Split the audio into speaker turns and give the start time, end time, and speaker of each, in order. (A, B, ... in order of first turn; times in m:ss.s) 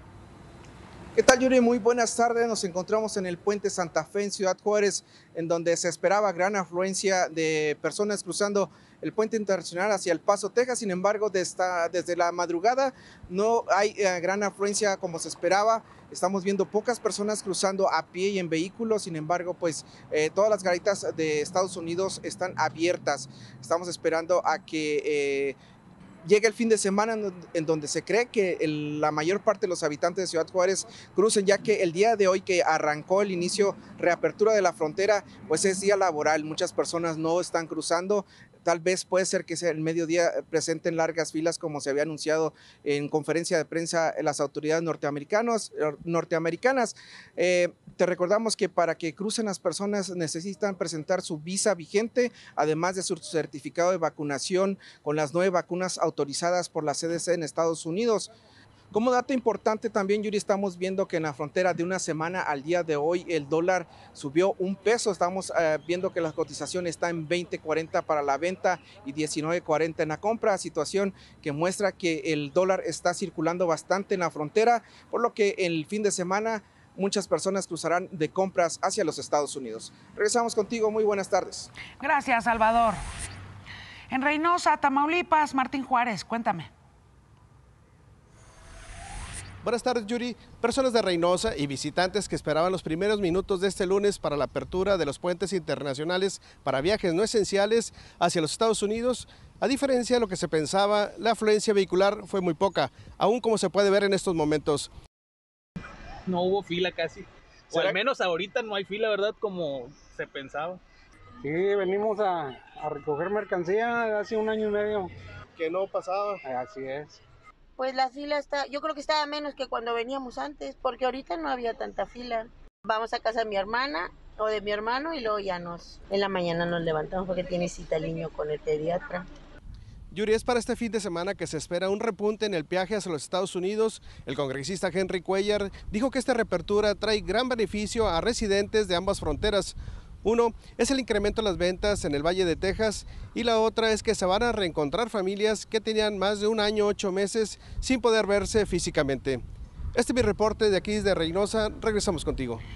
0:01.1-0:25.6 A
0:26.2-0:58.3 A
0:58.9-1:21.7 A
1:22.0-1:23.0 B
1:24.1-1:26.7 B
1:29.6-1:44.9 C
1:46.3-1:50.8 D
1:51.4-1:55.1 E
1:55.5-1:56.4 C
1:56.5-1:57.2 E
1:57.8-2:09.3 F
2:10.1-2:29.4 C
2:29.9-2:32.6 C